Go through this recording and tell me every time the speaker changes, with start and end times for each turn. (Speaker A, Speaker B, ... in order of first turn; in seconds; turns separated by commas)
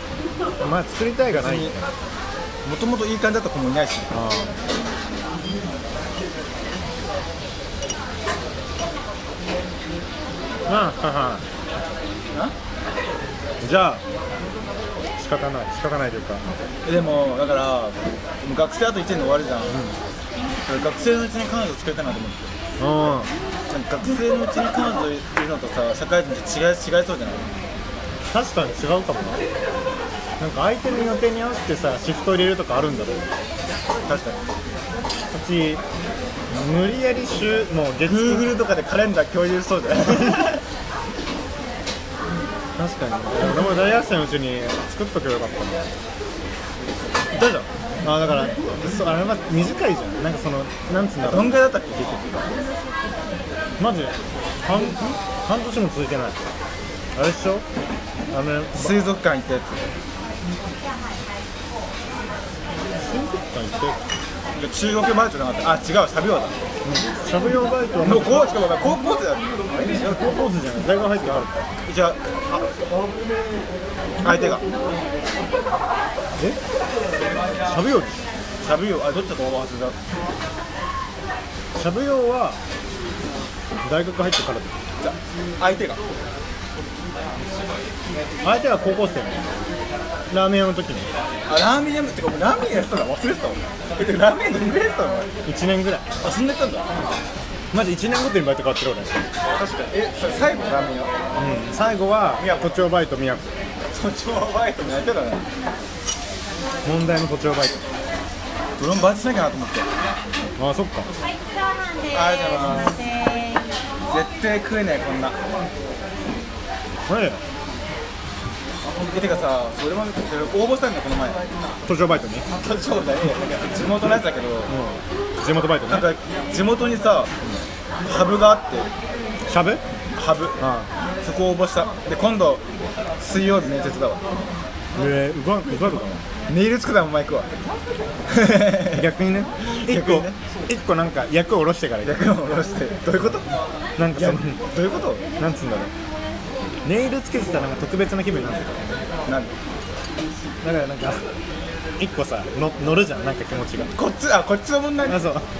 Speaker A: 0.6-1.9, Speaker B: 1.3-1.7, Speaker B: 2.6-4.1, Speaker A: 4.1-4.5, Speaker A: 10.7-11.4, Speaker A: 13.6-14.0, Speaker A: 15.2-16.4, Speaker B: 16.8-19.9, Speaker A: 19.7-19.9, Speaker B: 20.6-22.5, Speaker A: 22.8-23.3, Speaker B: 23.7-27.5, Speaker A: 28.3-29.4, Speaker A: 30.4-33.3, Speaker B: 34.0-34.4, Speaker A: 35.3-35.8, Speaker A: 36.5-38.5, Speaker B: 38.0-40.6, Speaker A: 40.1-40.5, Speaker A: 42.8-45.8, Speaker B: 47.3-47.7, Speaker A: 48.0-51.6, Speaker B: 51.2-52.5, Speaker A: 53.8-56.4, Speaker A: 57.1-57.6, Speaker A: 58.3-59.0, Speaker B: 58.7-59.8, Speaker A: 63.0-64.0, Speaker B: 64.5-66.5, Speaker A: 66.8-68.5, Speaker B: 68.0-70.2, Speaker A: 69.9-71.6, Speaker B: 71.9-72.7, Speaker B: 74.2-74.6, Speaker A: 77.7-78.2, Speaker B: 78.6-80.0, Speaker A: 81.7-82.6, Speaker A: 83.8-84.7, Speaker B: 85.0-86.0, Speaker A: 88.4-89.5, Speaker A: 90.3-91.1, Speaker B: 91.5-95.3, Speaker A: 95.4-96.1, Speaker B: 96.2-96.9, Speaker A: 97.7-99.2, Speaker B: 99.5-101.1, Speaker A: 101.4-103.5, Speaker B: 102.4-102.7, Speaker B: 103.9-105.4, Speaker A: 106.8-107.8, Speaker B: 108.8-109.8, Speaker A: 110.6-111.1, Speaker C: 111.2-113.8, Speaker B: 112.1-113.0, Speaker B: 114.1-115.4, Speaker A: 117.1-117.4, Speaker B: 119.1-121.4, Speaker A: 121.8-122.5, Speaker B: 122.5-124.7, Speaker A: 124.7-126.1, Speaker B: 125.9-127.3, Speaker B: 128.0-128.9, Speaker A: 129.5-129.8, Speaker B: 130.2-130.6, Speaker A: 130.6-130.9, Speaker B: 131.2-132.6, Speaker B: 133.2-134.2, Speaker A: 134.9-136.2, Speaker B: 136.5-137.5, Speaker B: 138.3-139.1, Speaker A: 138.8-142.2, Speaker B: 139.8-140.4, Speaker B: 142.0-143.5, Speaker A: 144.0-144.6, Speaker B: 144.1-145.2, Speaker A: 145.4-145.9, Speaker A: 146.8-149.0, Speaker B: 149.3-149.5, Speaker A: 150.6-151.2, Speaker A: 152.0-153.9, Speaker B: 153.9-155.2, Speaker A: 155.1-155.5